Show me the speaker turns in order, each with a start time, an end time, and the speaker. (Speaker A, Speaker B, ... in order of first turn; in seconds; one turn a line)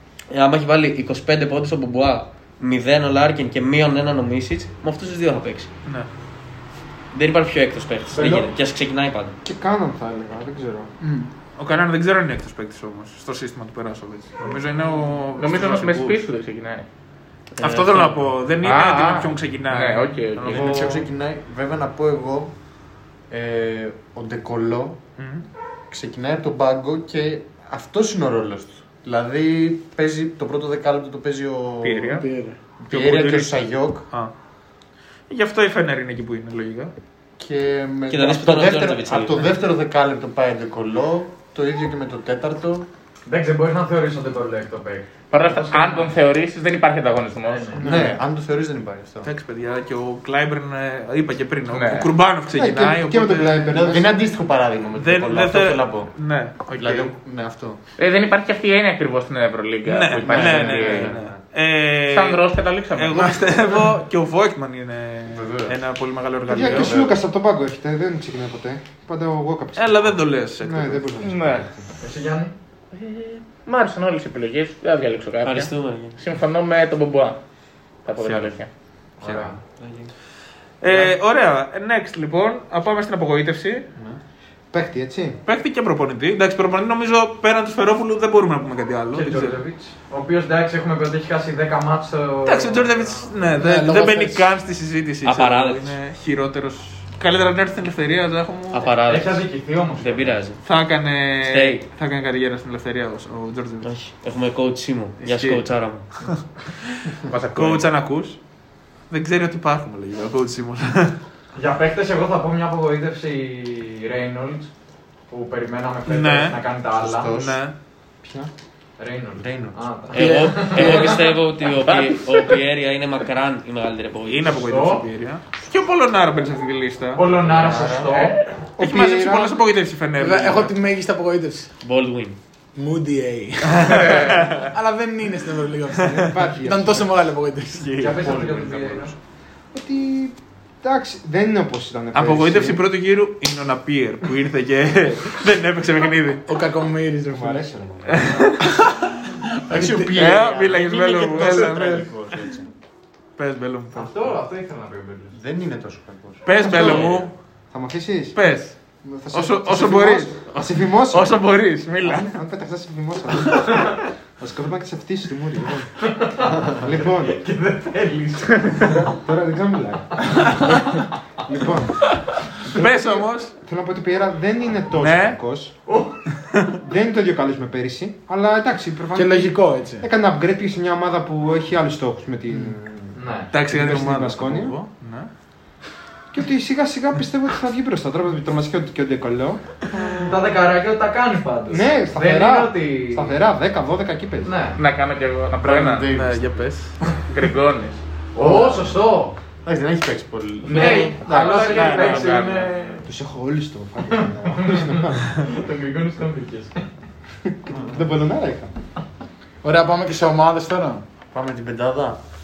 Speaker A: 0.3-5.7
Speaker A: 7.1-9.4
Speaker B: 8.2-8.5
Speaker C: 9.4-10.9
Speaker B: 11.0-11.3
Speaker D: 11.6-16.2
Speaker E: 15.4-16.9
Speaker A: 17.5-18.3
Speaker D: 17.6-21.1
Speaker E: 18.6-20.9
Speaker F: 20.4-22.5
Speaker F: 23.3-25.0
Speaker D: 25.2-25.5
Speaker F: 25.9-32.2
Speaker D: 31.8-32.3
Speaker B: 32.1-32.6
Speaker F: 32.8-34.1
Speaker D: 32.9-34.3
Speaker D: 35.3-36.9
Speaker F: 37.4-42.9
Speaker A: 38.1-39.5
Speaker G: 43.3-46.1
Speaker E: 45.3-47.8
Speaker G: 47.5-47.9
Speaker F: 47.8-49.3
Speaker C: 47.8-48.2
Speaker D: 49.2-53.8
Speaker E: 51.7-52.1
Speaker C: 52.5-54.2
Speaker F: 53.7-56.1
Speaker D: 55.0-57.1
Speaker F: 56.8-57.8
Speaker E: 58.0-61.1
Speaker D: 59.9-67.0
Speaker F: 60.2-61.4
Speaker E: 62.1-63.3
Speaker F: 65.3-65.8
Speaker C: 66.5-71.8
Speaker F: 66.5-67.2
Speaker D: 69.8-71.1
Speaker E: 71.2-71.7
Speaker G: 72.0-72.5
Speaker E: 72.9-77.4
Speaker A: 75.4-76.2
Speaker E: 78.0-78.7
Speaker G: 79.2-79.6
Speaker F: 79.2-80.0
Speaker D: 80.8-83.9
Speaker G: 80.9-81.1
Speaker C: 84.7-85.4
Speaker D: 85.5-89.6
Speaker G: 89.1-93.3
Speaker D: 92.5-98.9
Speaker B: 93.6-94.5
Speaker A: 95.2-96.0
Speaker A: 98.7-99.4
Speaker G: 99.1-100.4
Speaker A: 100.0-100.6
Speaker D: 100.6-103.9
Speaker A: 101.4-101.9
Speaker A: 103.8-106.1
Speaker D: 105.2-105.6
Speaker E: 107.3-107.9
Speaker D: 107.5-108.4
Speaker D: 109.1-111.2
Speaker G: 111.5-114.7
Speaker G: 115.3-117.3
Speaker D: 116.1-116.6
Speaker F: 117.0-117.6
Speaker D: 117.3-117.7
Speaker G: 119.0-121.2
Speaker F: 119.4-119.8
Speaker A: 120.1-124.5
Speaker E: 121.8-122.5
Speaker D: 124.3-127.2
Speaker G: 124.5-125.0
Speaker G: 127.2-128.4
Speaker F: 127.3-128.4
Speaker C: 128.8-129.6
Speaker D: 128.8-130.7
Speaker B: 130.2-131.7
Speaker A: 131.8-132.4
Speaker B: 132.8-138.1
Speaker D: 133.7-134.7
Speaker C: 136.0-137.1
Speaker D: 137.8-138.9
Speaker G: 138.0-139.1
Speaker F: 138.2-138.9
Speaker C: 139.7-142.8
Speaker D: 142.1-146.5
Speaker B: 146.5-147.7
Speaker C: 147.3-148.5
Speaker D: 148.1-148.7
Speaker B: 148.6-150.3
Speaker F: 149.7-152.7
Speaker D: 150.2-152.1
Speaker D: 153.4-154.4
Speaker G: 153.9-155.3
Speaker F: 155.3-157.1
Speaker D: 156.4-157.3
Speaker C: 156.5-158.4
Speaker D: 158.3-158.8
Speaker C: 159.0-161.4
Speaker D: 159.3-162.3
Speaker C: 162.0-167.4
Speaker G: 166.0-169.0
Speaker C: 168.8-170.7
Speaker C: 171.4-172.2
Speaker D: 172.7-173.5
Speaker C: 172.8-175.7
Speaker D: 175.0-175.4
Speaker G: 175.9-176.2
Speaker C: 176.8-184.8
Speaker B: 179.2-180.1
Speaker G: 183.1-183.5
Speaker D: 183.5-185.3
Speaker C: 186.3-189.6
Speaker G: 190.1-193.4
Speaker C: 191.7-194.6
Speaker G: 194.4-194.8
Speaker E: 194.8-196.1
Speaker F: 195.6-196.7
Speaker D: 196.1-197.0
Speaker E: 197.3-198.0
Speaker G: 198.3-199.4
Speaker F: 198.4-199.0
Speaker F: 199.7-201.1
Speaker G: 200.6-202.9
Speaker E: 200.7-203.0
Speaker D: 201.3-202.5
Speaker C: 203.1-205.3
Speaker G: 204.1-206.8
Speaker C: 207.4-208.7
Speaker B: 209.6-211.0
Speaker F: 211.3-212.2